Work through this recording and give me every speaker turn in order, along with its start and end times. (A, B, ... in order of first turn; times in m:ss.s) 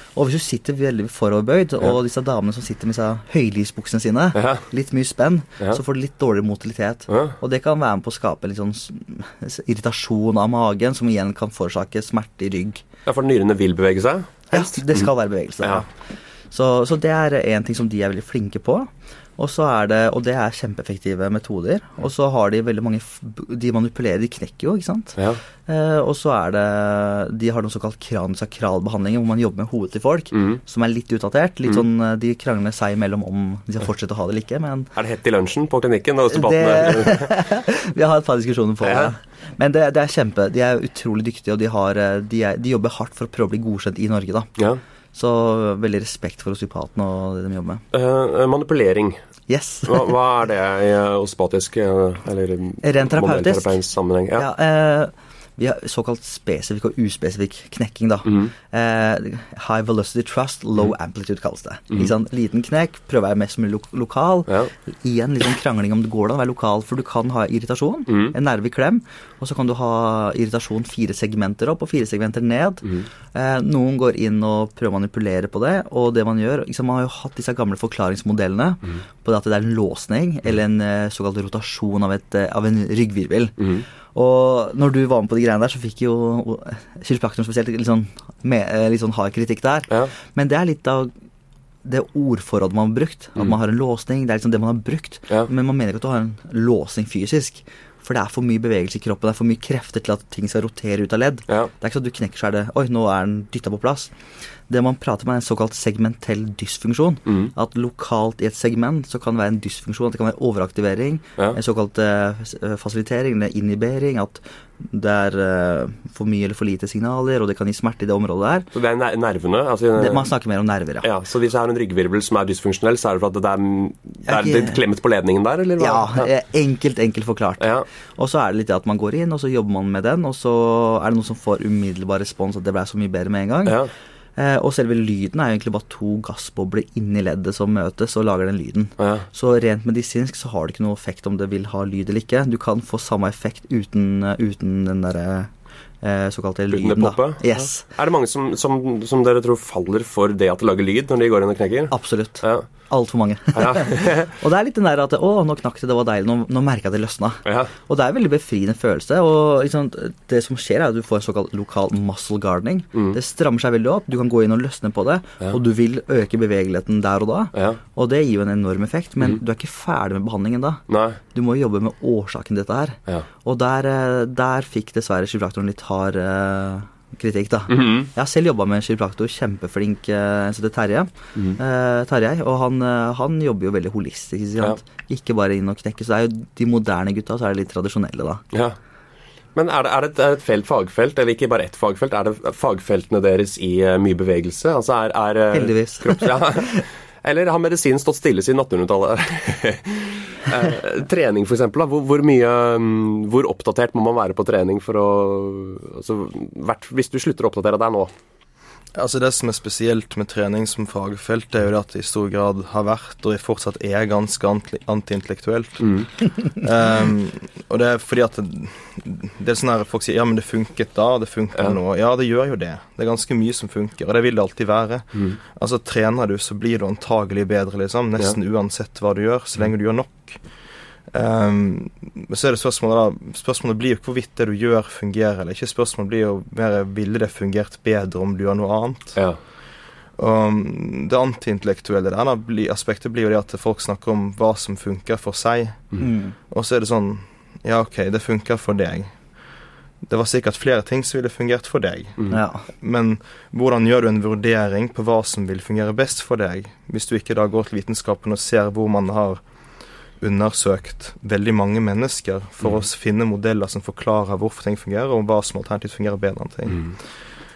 0:00.2-0:12.8 A
0:04.4-0:04.6 B
0:07.1-0:07.4 B
0:13.1-0:15.1 B
0:14.5-0:15.9 A
0:16.5-0:34.9 A
0:30.3-0:30.6 B
0:35.0-0:37.4 B
0:36.3-0:44.5 A
0:38.8-0:39.1 B
0:45.1-0:47.8 A
0:47.9-0:49.2 B
0:49.5-0:50.1 A
0:49.9-0:54.5 B
0:52.8-0:53.8 A
0:54.4-1:23.6 A
0:58.2-0:58.5 B
1:08.1-1:08.3 B
1:23.6-1:23.8 B
1:24.1-1:31.1 A
1:31.8-1:44.1 A
1:44.7-1:58.7 A
1:47.3-1:47.5 B
1:58.7-2:00.3 B
2:00.0-2:01.1 A
2:01.0-2:06.3 B
2:04.3-2:04.8 A
2:05.8-2:07.7 A
2:07.6-2:07.8 B
2:08.2-2:13.8 A
2:13.6-2:13.9 B
2:14.4-2:25.5 A
2:19.0-2:19.3 B
2:26.0-2:27.8 A
2:26.7-2:32.7 B
2:31.9-2:50.8 A
2:33.6-2:34.3 B
2:37.4-2:37.7 B
2:47.5-2:47.8 B
2:50.9-2:51.2 B
2:51.3-3:08.4 A
2:57.7-2:58.1 B
3:09.6-3:28.1 B
3:15.5-3:16.8 A
3:29.0-3:50.4 C
3:35.8-3:36.1 B
3:51.1-3:59.2 C
4:00.2-4:06.0 C
4:06.0-4:06.4 A
4:06.5-4:09.1 C
4:10.0-4:19.4 C
4:12.3-4:12.6 A
4:20.2-4:27.2 C